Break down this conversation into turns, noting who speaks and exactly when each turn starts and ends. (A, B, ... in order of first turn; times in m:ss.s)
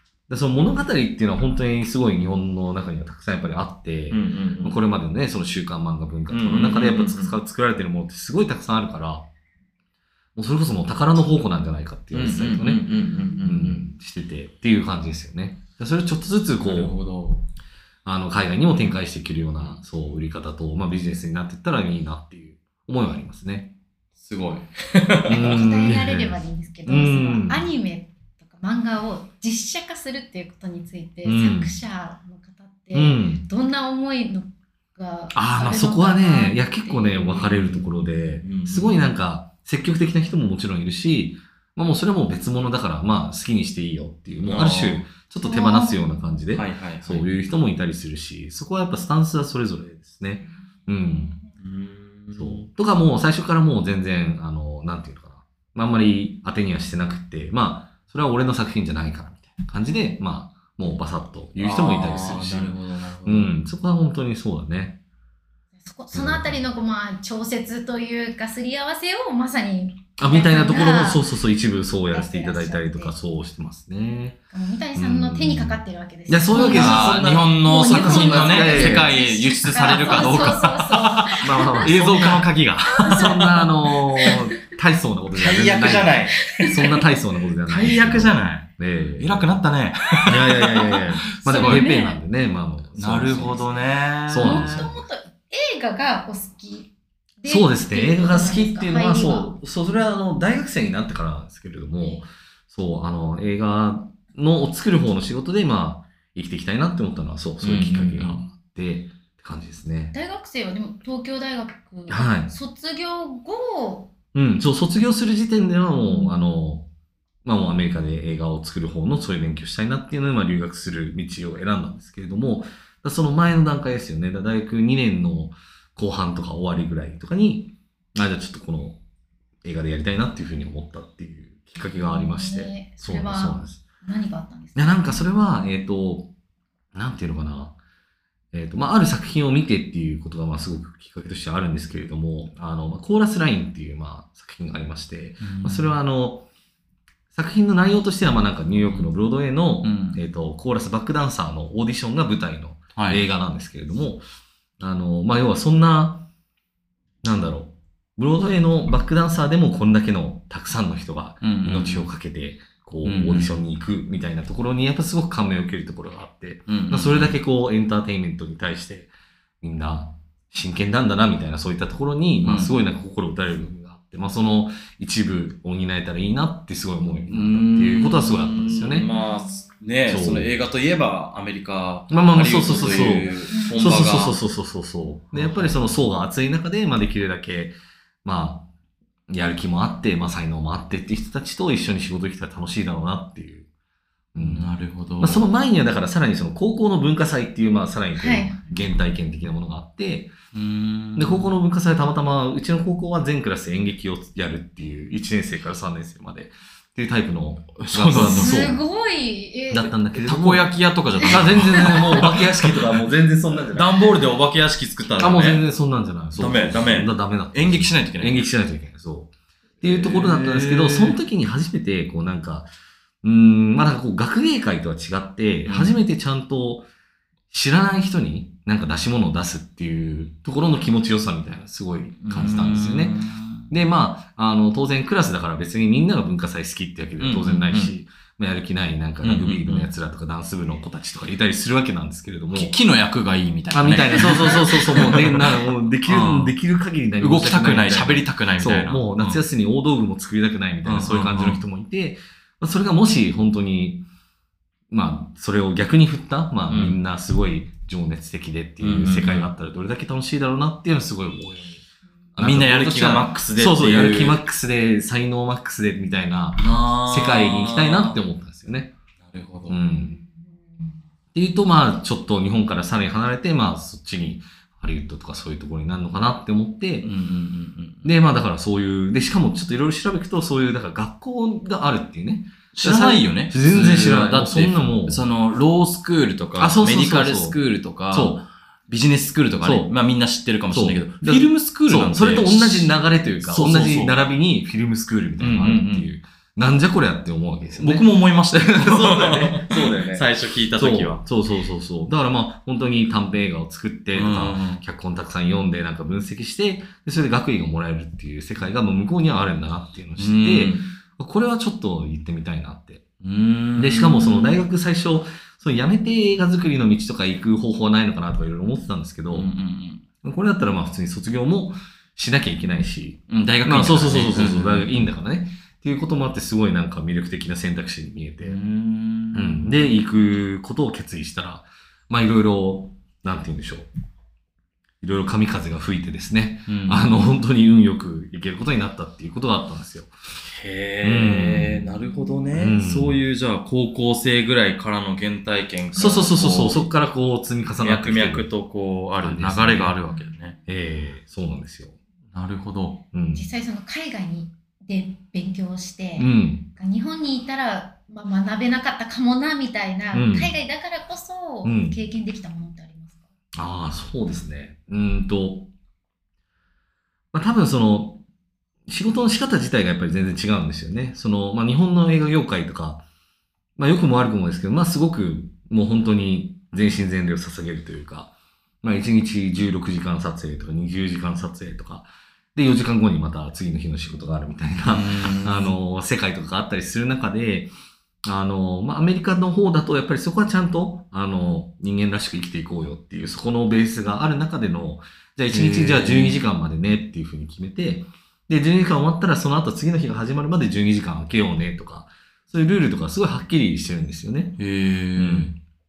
0:00.3-0:09.2 A
0:04.1-0:04.8 B
0:06.3-0:07.4 B
0:10.4-0:12.8 A
0:12.1-0:13.8 B
0:13.4-0:17.0 A
0:16.6-0:17.4 B
0:18.0-0:23.7 A
0:24.2-0:25.6 B
0:25.3-0:27.7 A
0:25.3-0:37.3 C
0:31.2-0:31.7 A
0:32.9-0:33.4 A
0:35.3-0:51.3 A
0:37.2-0:39.1 B
0:44.4-0:45.1 B
0:45.4-0:46.1 C
0:46.5-0:47.3 B
0:51.0-0:51.5 C
0:51.6-0:52.7 B
0:52.4-1:05.0 A
1:01.6-1:03.5 B
1:05.8-1:11.2 C
1:06.1-1:06.6 A
1:10.2-1:14.4 A
1:12.1-1:13.1 C
1:14.5-1:22.1 C
1:14.9-1:19.1 A
1:16.5-1:23.6 B
1:19.7-1:20.6 A
1:21.4-1:22.5 A
1:23.0-1:23.4 C
1:23.0-1:29.5 A
1:25.3-1:26.6 B
1:26.4-1:26.9 C
1:27.6-1:31.9 B
1:30.2-1:35.0 A
1:31.4-1:32.2 C
1:33.0-1:34.9 B
1:34.4-1:36.9 C
1:37.4-1:39.5 C
1:37.5-1:50.1 A
1:47.6-1:48.4 B
1:50.1-1:54.1 C
1:52.1-1:52.5 A
1:54.3-1:56.8 A
1:56.0-1:56.4 C
1:57.4-2:09.0 A
2:09.6-2:13.8 A
2:11.9-2:15.2 C
2:14.8-2:16.3 A
2:16.9-2:17.8 A
2:18.5-2:26.5 A
2:25.4-2:25.9 B
2:27.3-2:34.2 A
2:29.8-2:30.2 B
2:32.9-2:33.2 B
2:34.8-2:36.3 A
2:37.2-2:59.1 A
2:41.4-2:42.1 B
2:43.0-2:43.6 B
2:46.7-2:47.4 B
2:52.4-2:52.7 B
2:57.3-3:04.4 B
2:59.1-2:59.6 C
3:00.1-3:00.5 A
3:02.1-3:08.7 A
3:02.7-3:03.9 C
3:05.3-3:06.0 B
3:09.3-3:13.7 A
3:14.3-3:14.7 A
3:14.4-3:15.4 B
3:15.2-3:20.3 A
3:18.2-3:18.6 C
3:20.5-3:21.5 B
3:21.2-3:28.8 A
3:27.8-3:28.7 B
3:28.2-3:29.9 C
3:29.7-3:30.7 A
3:30.1-3:33.1 B
3:31.2-3:32.3 C
3:31.2-3:34.1 A
3:33.7-3:35.6 B
3:35.2-3:42.7 A
3:36.4-3:38.5 B
3:39.8-3:41.2 B
3:43.2-3:46.9 A
3:45.6-3:46.0 B
3:47.5-3:53.2 A
3:52.2-3:53.7 B
3:53.7-4:02.7 A
3:57.2-3:57.9 B
3:59.2-3:59.9 B
4:02.5-4:06.5 B
4:03.7-4:14.1 A
4:07.2-4:09.4 B
4:10.8-4:11.6 B
4:14.9-4:21.8 A
4:16.7-4:17.0 B
4:18.8-4:19.5 B
4:22.4-4:28.9 A
4:22.4-4:24.4 B
4:26.6-4:28.2 B
4:29.2-4:29.8 B
4:29.7-4:30.2 A
4:30.0-4:30.9 C
4:31.3-4:37.1 A
4:37.0-4:38.1 B
4:38.0-4:45.2 A
4:42.7-4:54.2 B
4:46.6-4:47.6 A
4:48.1-4:48.4 A
4:49.6-4:49.9 A
4:50.7-5:13.0 A
4:55.4-4:56.1 B
4:57.8-5:01.2 B
5:04.1-5:04.8 B
5:10.2-5:10.9 B
5:13.2-5:14.6 B
5:13.8-5:19.5 A
5:19.3-5:20.0 B
5:20.2-5:28.6 A
5:23.3-5:24.9 B
5:28.4-5:29.8 B
5:29.3-5:33.9 A
5:35.0-5:40.1 A
5:36.7-5:37.1 B
5:40.4-5:46.9 B
5:41.0-5:41.9 A
5:42.5-5:43.2 A
5:45.9-5:48.5 A
5:47.8-5:50.6 B
5:49.2-5:50.0 A
5:50.7-5:52.0 A
5:52.3-5:53.0 B
5:53.1-5:53.4 A
5:53.3-6:03.2 C
5:56.2-5:56.7 A
6:00.1-6:00.5 A
6:01.6-6:02.0 A
6:03.5-6:05.7 A
6:07.3-6:08.2 A
6:08.9-6:13.0 A
6:13.8-6:27.7 A
6:24.8-6:25.8 B
6:28.2-6:44.6 A
6:35.5-6:36.4 B
6:44.6-6:45.5 B
6:45.2-6:45.6 A